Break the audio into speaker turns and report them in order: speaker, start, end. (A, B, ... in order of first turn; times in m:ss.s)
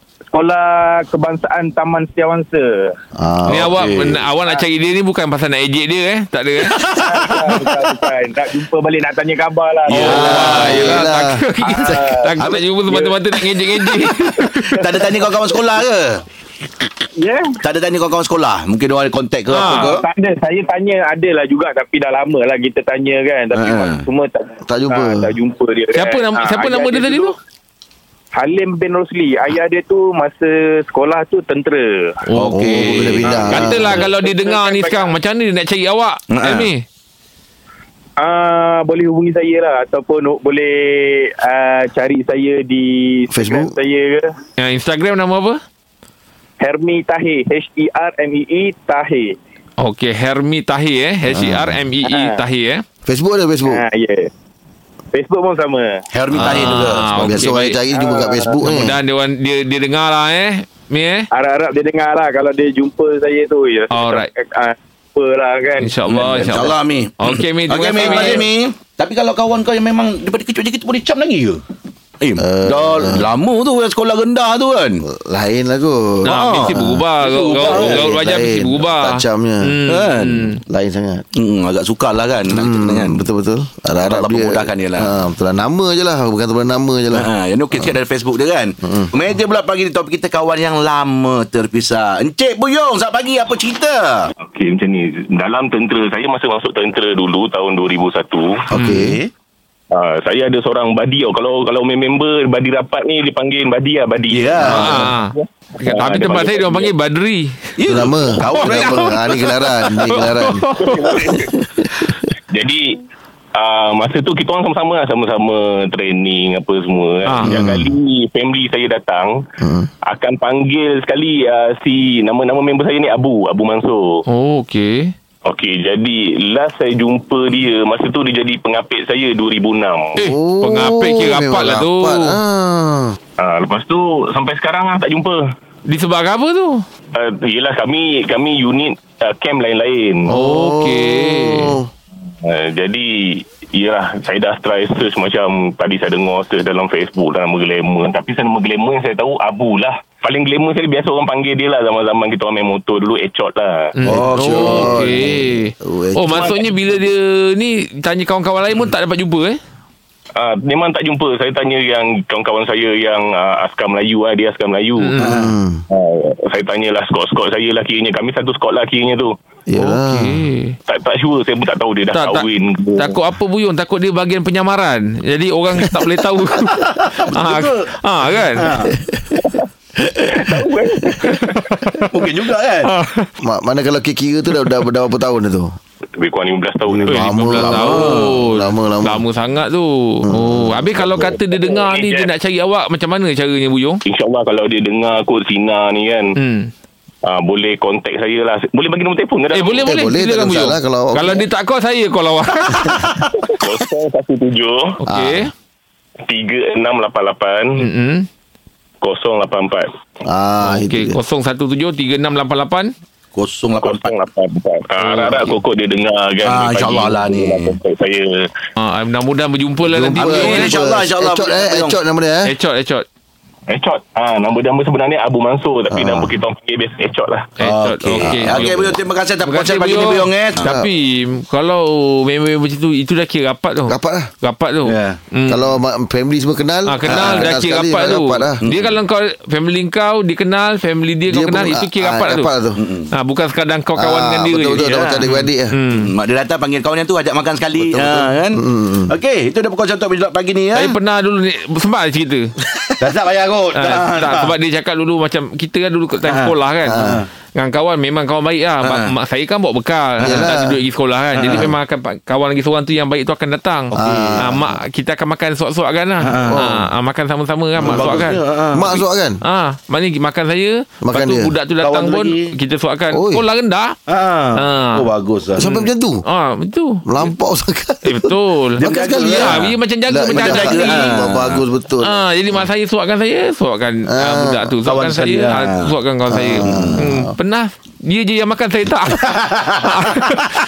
0:00.3-0:02.9 A
0:03.2-0:03.9 B
0:03.5-0:06.8 C
0:03.7-0:04.1 D
0:06.7-0:07.5 D
0:06.9-0:11.0 A
0:09.9-0:14.8 C
0:09.9-0:10.2 D
0:10.0-0:11.4 B
0:11.6-0:13.1 A
0:14.6-0:15.6 A
0:14.8-0:16.2 D
0:17.2-0:17.6 A
0:17.6-0:20.0 D
0:19.5-0:20.0 C
0:19.5-0:27.4 A
0:23.5-0:24.0 D
0:24.6-0:25.3 B
0:25.9-0:27.3 C
0:28.4-0:32.2 A
0:32.3-0:36.8 C
0:32.3-0:33.4 D
0:32.5-0:34.0 B
0:33.3-0:35.1 A
0:36.3-0:36.7 D
0:38.2-0:44.3 A
0:43.3-0:43.7 B
0:44.6-0:45.6 C
0:46.6-0:49.4 A
0:49.8-0:52.8 C
0:51.3-0:51.8 B
0:52.0-0:52.4 A
0:53.0-0:53.8 B
0:53.6-0:54.3 A
0:55.1-0:56.0 A
0:56.1-0:57.1 D
0:56.3-0:57.8 C
0:57.1-0:58.9 B
0:57.9-0:58.6 A
0:58.6-1:01.3 C
1:01.3-1:05.9 A
1:03.9-1:04.3 C
1:05.8-1:08.5 C
1:06.1-1:11.6 D
1:08.0-1:08.4 A
1:12.2-1:15.0 D
1:12.4-1:13.3 B
1:15.0-1:17.0 B
1:16.2-1:18.1 D
1:16.2-1:20.6 C
1:17.6-1:19.8 B
1:19.9-1:20.5 D
1:20.6-1:21.2 B
1:21.3-1:23.2 D
1:22.5-1:27.3 B
1:24.0-1:25.1 D
1:27.1-1:34.3 D
1:28.8-1:29.1 B
1:34.4-1:38.7 E
1:38.7-1:39.3 D
1:38.7-1:39.2 B
1:38.8-1:39.0 C
1:39.9-1:46.9 E
1:44.3-1:45.0 D
1:44.6-1:47.7 C
1:47.8-1:49.2 D
1:47.9-1:50.6 B
1:48.4-1:51.3 C
1:50.8-1:51.5 E
1:52.5-1:53.0 E
1:53.6-1:59.4 E
1:57.2-1:57.6 C
1:57.5-1:57.9 B
1:59.6-1:59.9 B
2:00.1-2:04.2 E
2:04.3-2:05.1 C
2:05.4-2:10.2 E
2:10.2-2:12.4 C
2:10.2-2:13.2 B
2:13.4-2:15.4 E
2:15.9-2:16.8 C
2:17.1-2:20.3 E
2:20.3-2:21.9 B
2:20.3-2:21.8 C
2:22.4-2:33.9 E
2:34.0-2:39.6 C
2:34.0-2:35.1 D
2:34.1-2:36.6 B
2:40.4-2:45.1 E
2:45.0-2:45.5 C
2:45.2-2:45.5 D
2:45.2-2:45.8 B
2:45.9-2:49.3 E
2:49.7-2:50.4 B
2:49.8-2:50.8 C
2:50.9-2:53.2 E
2:52.1-2:58.7 C
2:56.8-2:57.9 D
2:58.5-2:58.9 D
2:59.4-2:59.6 E
3:00.3-3:01.5 E
3:01.2-3:02.1 C
3:02.1-3:02.9 D
3:02.8-3:03.3 C
3:03.4-3:05.8 B
3:06.2-3:07.3 E
3:06.9-3:09.2 B
3:07.1-3:14.0 C
3:07.6-3:08.4 D
3:10.3-3:11.3 B
3:11.1-3:12.3 E
3:14.0-3:16.4 E
3:16.4-3:16.7 C
3:17.2-3:19.9 E
3:19.5-3:23.2 C
3:19.8-3:21.4 B
3:23.4-3:25.0 E
3:25.0-3:25.5 C
3:25.1-3:25.5 B
3:26.2-3:27.8 E
3:27.8-3:28.3 C
3:29.0-3:29.9 E
3:30.2-3:31.2 B
3:30.6-3:32.9 C
3:33.3-3:34.1 D
3:33.8-3:38.5 E
3:35.0-3:35.6 C
3:36.4-3:37.8 D
3:38.8-3:40.7 C
3:39.8-3:42.5 B
3:40.2-3:41.9 D
3:42.4-3:43.0 C
3:43.7-3:47.5 E
3:45.9-3:46.3 B
3:47.6-3:50.7 D
3:47.6-3:55.7 C
3:48.2-3:48.6 B
3:53.9-3:54.3 B
3:54.8-3:55.2 D
3:55.5-3:58.6 B
3:56.9-4:02.5 C
3:57.1-3:57.5 D
3:58.6-3:58.9 D
4:01.3-4:02.8 B
4:02.8-4:03.1 D
4:03.1-4:06.1 C
4:04.0-4:05.7 B
4:04.7-4:05.3 D
4:05.9-4:11.0 D
4:07.8-4:09.1 B
4:10.8-4:12.5 C
4:13.0-4:14.5 D
4:13.8-4:28.4 C
4:16.2-4:17.3 D
4:16.8-4:17.2 B
4:18.8-4:19.1 D
4:20.2-4:20.5 D
4:20.2-4:20.8 B
4:21.4-4:21.7 D
4:23.9-4:24.6 D
4:23.9-4:24.7 B
4:26.2-4:26.6 D
4:26.5-4:26.9 B
4:27.8-4:29.0 D
4:27.8-4:29.4 B
4:29.4-4:34.0 C
4:31.0-4:31.5 B
4:31.8-4:32.5 D
4:33.1-4:33.4 B
4:34.1-4:35.7 D
4:34.6-4:35.1 C
4:35.6-4:36.2 B
4:35.6-4:37.2 C
4:37.0-4:42.2 B
4:38.0-4:41.2 C
4:38.8-4:39.7 D
4:40.3-4:41.6 D
4:42.0-4:50.5 C
4:44.1-4:44.7 B
4:44.8-4:45.9 D
4:46.3-4:47.3 B
4:46.6-4:47.0 D
4:49.2-4:50.4 D